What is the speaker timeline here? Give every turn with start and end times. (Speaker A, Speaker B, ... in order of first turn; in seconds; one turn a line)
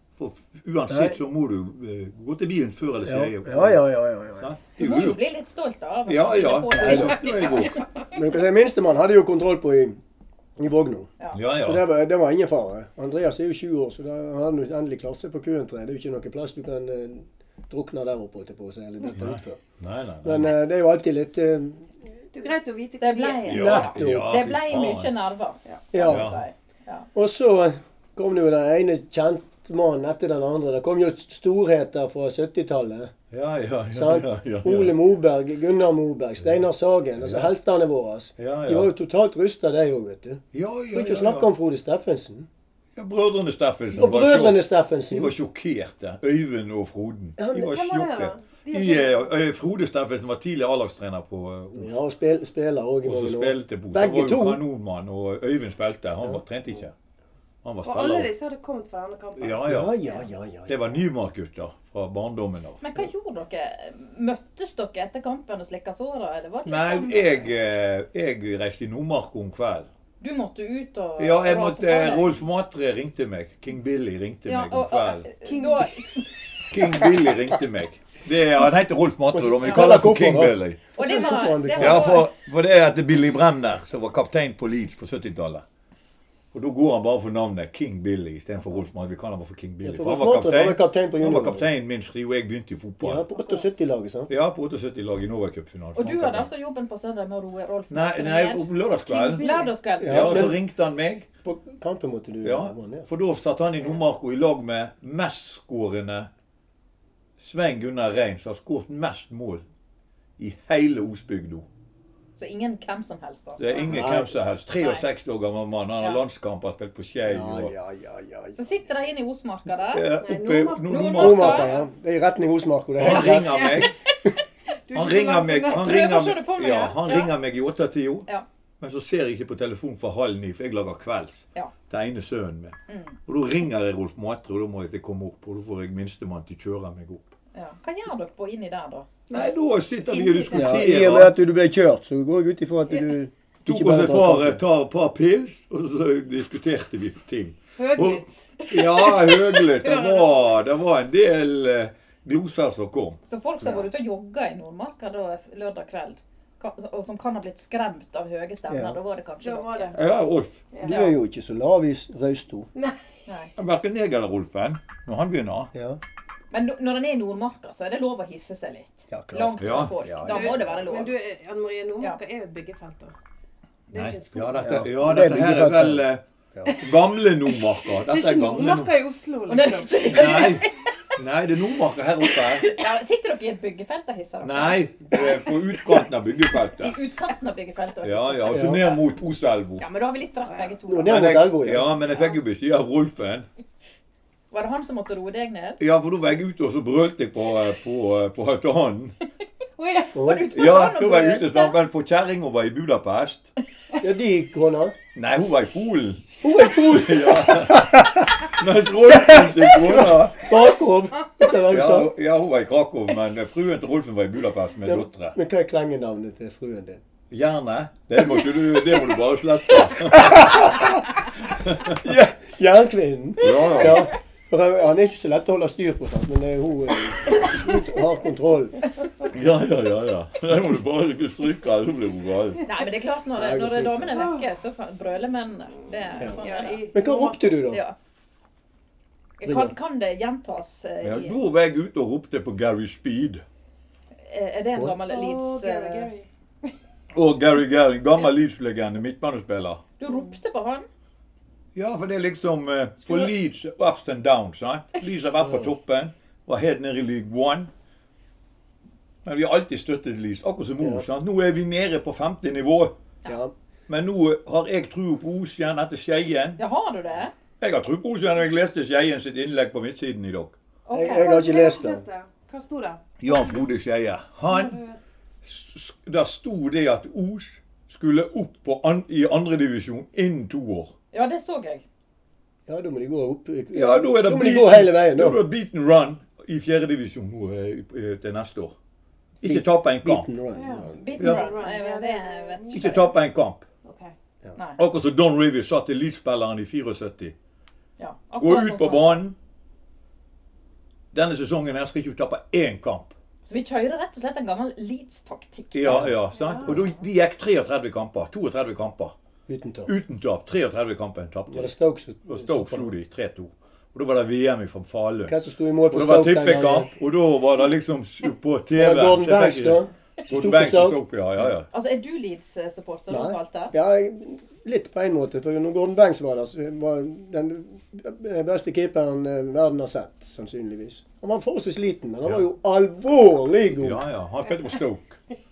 Speaker A: 0.2-3.8
Speaker B: 0.9-1.2
Speaker B: 3.0-4.5
Speaker A: 4.4-5.2
Speaker C: 4.8-7.7
Speaker A: 6.1-7.8
Speaker B: 6.7-7.3
Speaker D: 7.3-7.7
Speaker B: 8.1-10.0
Speaker B: 10.6-19.6
Speaker A: 11.3-11.8
Speaker A: 19.1-20.5
Speaker B: 20.2-22.0
Speaker D: 22.3-23.5
Speaker C: 23.0-27.1
Speaker A: 23.4-25.1
Speaker B: 23.5-24.3
Speaker B: 25.9-26.3
Speaker A: 26.0-26.4
Speaker B: 27.1-33.1
Speaker A: 33.3-34.9
Speaker B: 33.9-42.5
Speaker A: 37.2-37.5
Speaker A: 38.4-38.9
Speaker A: 40.5-41.5
Speaker A: 43.0-44.6
Speaker B: 43.9-45.3
Speaker A: 45.1-51.9
Speaker B: 47.4-47.8
Speaker D: 47.5-49.3
Speaker B: 51.8-54.6
Speaker A: 53.0-56.9
Speaker A: 57.6-58.3
Speaker D: 57.8-60.2
Speaker A: 59.4-59.9
Speaker B: 59.6-61.0
Speaker A: 60.7-62.8
Speaker C: 62.8-67.5
Speaker A: 66.7-69.9
Speaker C: 70.2-72.3
Speaker A: 71.2-75.3
Speaker C: 74.5-76.3
Speaker D: 75.4-75.9
Speaker A: 76.7-80.8
Speaker B: 79.3-82.2
Speaker C: 80.9-82.3
Speaker A: 81.8-85.6
Speaker A: 86.5-93.2
Speaker B: 89.8-91.7
Speaker B: 93.0-94.3
Speaker C: 93.4-93.6
Speaker A: 94.3-96.5
Speaker C: 96.0-100.5
Speaker A: 97.9-99.4
Speaker D: 99.1-99.7
Speaker B: 100.0-100.6
Speaker A: 100.0-101.3
Speaker B: 101.4-103.1
Speaker A: 102.4-106.3
Speaker A: 107.4-109.6
Speaker A: 110.4-111.7
Speaker C: 112.3-114.1
Speaker A: 113.6-117.7
Speaker B: 113.9-114.3
Speaker C: 114.8-115.0
Speaker B: 117.2-118.7
Speaker C: 118.5-120.0
Speaker A: 119.9-121.7
Speaker D: 120.2-121.8
Speaker C: 120.9-121.8
Speaker B: 121.2-123.8
Speaker A: 123.0-123.9
Speaker D: 123.5-123.9
Speaker D: 124.9-126.0
Speaker A: 124.9-128.3
Speaker C: 125.7-127.3
Speaker A: 128.8-137.3
Speaker C: 132.9-133.2
Speaker C: 137.5-139.1
Speaker A: 139.3-141.3
Speaker D: 140.1-140.8
Speaker B: 140.5-144.6
Speaker A: 143.7-153.2
Speaker D: 147.8-150.6
Speaker C: 153.2-159.9
Speaker B: 158.7-159.0
Speaker D: 159.4-160.1
Speaker A: 159.9-160.6
Speaker D: 160.7-161.1
Speaker B: 160.8-162.7
Speaker C: 160.8-161.2
Speaker C: 163.3-163.5
Speaker A: 163.6-165.7
Speaker B: 165.7-166.0
Speaker C: 166.5-171.1
Speaker B: 169.1-170.8
Speaker A: 169.6-169.9
Speaker D: 170.2-173.1
Speaker A: 173.9-178.9
Speaker D: 173.9-174.9
Speaker B: 174.6-176.8
Speaker D: 177.9-180.6
Speaker C: 179.5-180.7
Speaker A: 180.1-182.7
Speaker C: 182.6-185.5
Speaker A: 184.4-186.9
Speaker C: 186.8-189.0
Speaker A: 188.0-189.8
Speaker B: 188.5-188.8
Speaker C: 189.8-191.4
Speaker D: 190.5-190.7
Speaker B: 190.9-191.9
Speaker A: 191.0-193.4
Speaker C: 194.5-195.8
Speaker A: 195.8-199.2
Speaker D: 199.8-200.2
Speaker B: 200.1-200.5
Speaker C: 200.2-201.7
Speaker A: 200.5-203.5
Speaker B: 204.0-204.9
Speaker A: 205.1-210.5
Speaker B: 206.4-208.2
Speaker B: 209.3-212.1
Speaker A: 211.7-215.3
Speaker B: 214.8-217.0
Speaker A: 217.3-221.0
Speaker B: 220.2-220.8
Speaker A: 221.5-222.0
Speaker B: 221.9-228.8
Speaker A: 223.4-224.1
Speaker A: 229.3-232.6
Speaker C: 232.6-236.8
Speaker B: 233.4-234.2
Speaker D: 234.1-234.5
Speaker D: 236.1-237.6
Speaker B: 236.2-237.8
Speaker C: 237.7-237.9
Speaker C: 239.4-241.4
Speaker B: 239.4-239.7
Speaker A: 241.0-243.4
Speaker C: 244.2-246.1
Speaker D: 244.9-246.3
Speaker A: 247.1-249.8
Speaker C: 250.0-250.9
Speaker D: 250.1-250.4
Speaker A: 251.7-257.7
Speaker B: 255.4-255.7
Speaker A: 259.2-262.9
Speaker B: 260.8-261.0
Speaker B: 263.2-263.5
Speaker A: 263.9-266.6
Speaker C: 266.6-267.3
Speaker A: 267.6-270.5
Speaker C: 270.9-271.6
Speaker B: 270.9-272.0
Speaker D: 271.0-273.6
Speaker A: 273.2-274.8
Speaker D: 274.5-275.0
Speaker A: 275.4-280.9
Speaker C: 281.1-281.8
Speaker B: 282.7-285.4
Speaker A: 283.7-288.7
Speaker A: 289.4-290.3
Speaker B: 289.4-291.1
Speaker D: 290.5-293.0
Speaker C: 290.9-293.1
Speaker A: 291.2-291.5
Speaker A: 292.7-293.6
Speaker D: 293.8-294.1
Speaker A: 294.8-297.3
Speaker C: 298.0-299.2
Speaker A: 298.4-299.4
Speaker A: 301.1-303.1
Speaker C: 303.4-306.1
Speaker A: 305.7-309.1
Speaker B: 305.8-306.1
Speaker D: 306.3-306.8
Speaker B: 309.5-309.9
Speaker A: 309.9-311.7
Speaker B: 311.5-312.9
Speaker A: 312.2-315.4
Speaker B: 315.2-316.9
Speaker A: 315.9-321.7
Speaker B: 318.8-321.5
Speaker C: 321.7-323.7
Speaker B: 323.1-334.0
Speaker A: 333.7-335.2